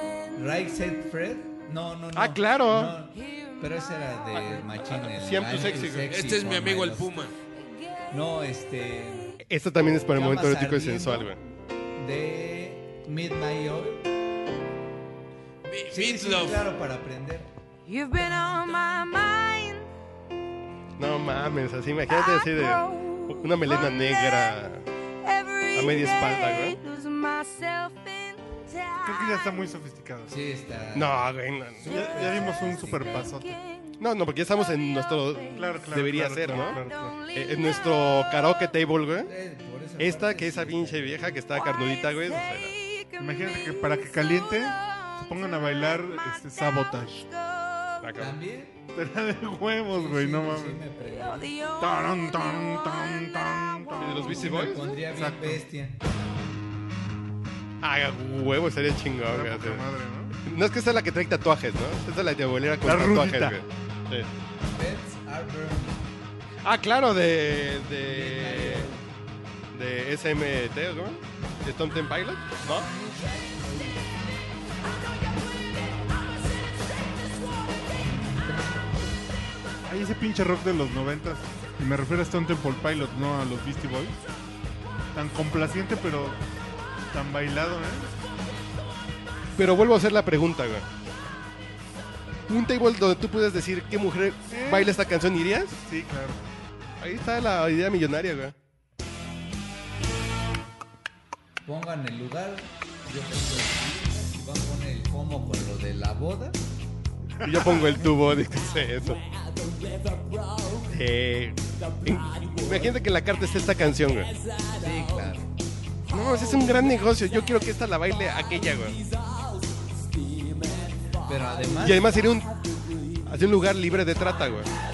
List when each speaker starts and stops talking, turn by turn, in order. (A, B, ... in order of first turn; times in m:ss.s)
0:00.1-0:00.4 A
0:00.4-0:07.1 B
0:02.1-0:03.0 C
0:03.2-0:03.7 A
0:04.3-0:06.2 C
0:06.1-0:07.3 D
0:08.1-0:09.4 B
0:09.4-0:11.4 C
0:10.1-0:11.4 B
0:12.0-0:14.1 B
0:15.6-0:16.7 D
0:15.9-0:17.5 B
0:17.8-0:19.9 A
0:21.0-0:24.9 C
0:22.1-0:24.6 A
0:25.2-0:29.7 A
0:25.7-0:26.8 C
0:29.0-0:30.3 E
0:30.3-0:33.3 B
0:30.9-0:32.0 C
0:31.9-0:33.5 E
0:33.3-0:34.0 A
0:34.0-0:36.8 C
0:34.8-0:36.0 A
0:35.6-0:37.2 E
0:36.5-0:38.7 A
0:37.3-0:39.3 C
0:39.2-0:41.3 B
0:40.0-0:42.7 C
0:41.4-0:48.2 A
0:43.2-0:47.2 E
0:48.0-0:48.4 C
0:48.2-0:48.8 B
0:48.9-0:50.8 E
0:49.9-0:51.5 B
0:51.0-0:54.9 A
0:51.8-0:55.6 E
0:54.0-0:54.9 C
0:54.3-0:56.0 B
0:57.8-0:59.9 C
0:59.3-1:00.3 E
1:00.4-1:04.3 C
1:02.8-1:03.6 E
1:04.7-1:06.0 B
1:06.6-1:08.9 C
1:08.0-1:09.0 B
1:09.7-1:12.9 C
1:12.9-1:14.0 B
1:18.0-1:18.9 B
1:19.8-1:24.2 E
1:25.1-1:26.4 E
1:27.1-1:28.1 E
1:29.6-1:30.9 C
1:32.5-1:35.8 C
1:34.5-1:35.0 E
1:35.8-1:36.4 E
1:37.0-1:38.5 C
1:41.6-1:46.6 B
1:47.4-1:47.9 E
1:47.4-1:49.2 C
1:49.3-1:50.8 A
1:50.9-1:54.3 C
1:54.7-1:55.5 B
1:56.1-1:59.0 C
2:00.7-2:01.1 A
2:01.2-2:02.1 B
2:01.8-2:02.5 C
2:03.2-2:04.7 C